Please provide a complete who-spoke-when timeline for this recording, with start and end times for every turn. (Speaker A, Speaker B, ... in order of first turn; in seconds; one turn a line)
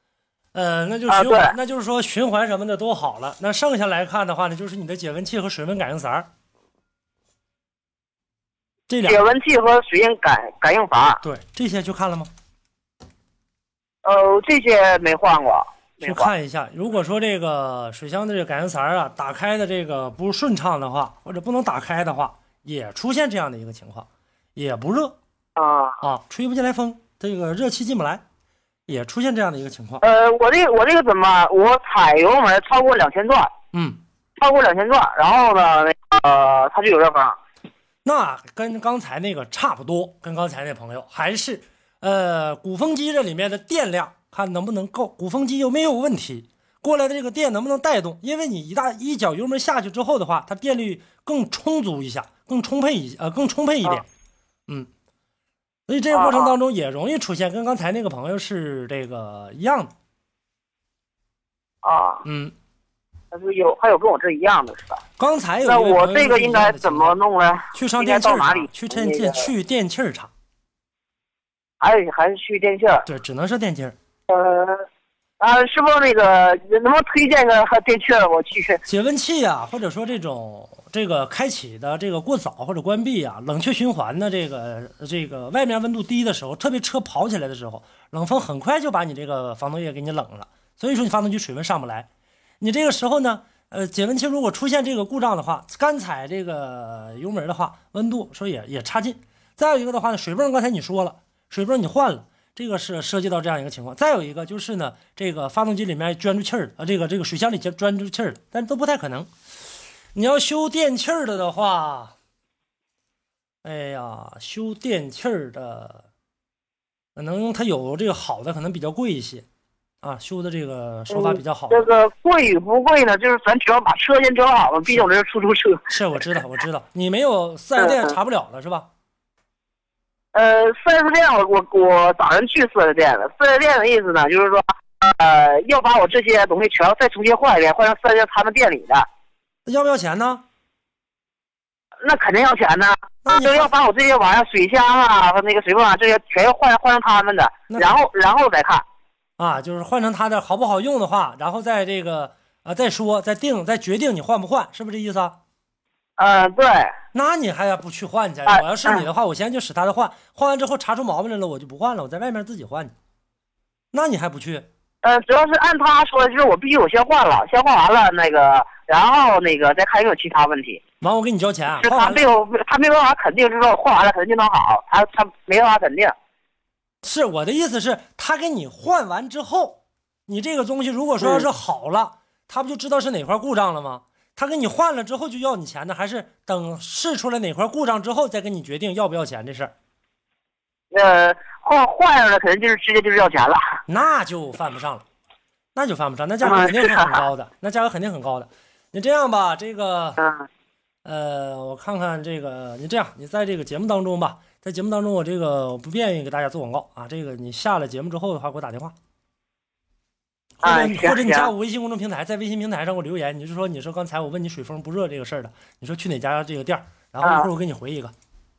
Speaker A: 0.5-6.3
Speaker B: 1.1-1.6
Speaker A: 8.9-9.2
Speaker B: 9.0-11.2
Speaker A: 11.2-12.3
Speaker B: 14.1-16.3
Speaker A: 16.0-25.2
Speaker B: 25.6-26.0
Speaker A: 26.0-28.2
Speaker A: 28.9-30.0
Speaker B: 30.0-33.5
Speaker A: 33.7-34.0
Speaker B: 34.4-37.4
Speaker A: 38.0-54.0
Speaker A: 55.9-59.9
Speaker B: 56.1-56.6
Speaker B: 61.8-62.2
Speaker A: 62.2-62.5
Speaker B: 63.3-65.0
Speaker A: 65.2-67.2
Speaker B: 65.6-69.5
Speaker A: 67.7-70.3
Speaker B: 71.8-73.1
Speaker A: 73.1-74.0
Speaker B: 74.3-74.9
Speaker B: 75.4-78.8
Speaker A: 78.9-92.1
Speaker A: 92.6-109.3
Speaker A: 110.1-112.1
Speaker A: 113.6-116.0
Speaker A: 117.2-119.5
Speaker A: 120.0-121.9
Speaker B: 121.1-125.9
Speaker A: 125.9-128.9
Speaker B: 127.8-128.2
Speaker B: 130.3-139.1
Speaker A: 139.7-140.4
Speaker B: 142.0-148.8
Speaker A: 143.2-143.7
Speaker A: 147.7-148.0
Speaker A: 149.4-155.4
Speaker B: 156.2-156.9
Speaker A: 157.1-162.9
Speaker B: 158.5-159.0
Speaker A: 163.9-164.7
Speaker B: 165.0-170.8
Speaker A: 171.0-172.2
Speaker B: 171.8-176.2
Speaker A: 177.0-189.7
Speaker B: 181.2-181.5
Speaker B: 190.9-193.8
Speaker A: 193.9-195.0
Speaker A: 195.8-200.2
Speaker B: 196.4-197.3
Speaker B: 200.2-200.5
Speaker A: 201.1-208.9
Speaker A: 210.6-218.1
Speaker B: 210.6-211.5
Speaker B: 217.2-217.5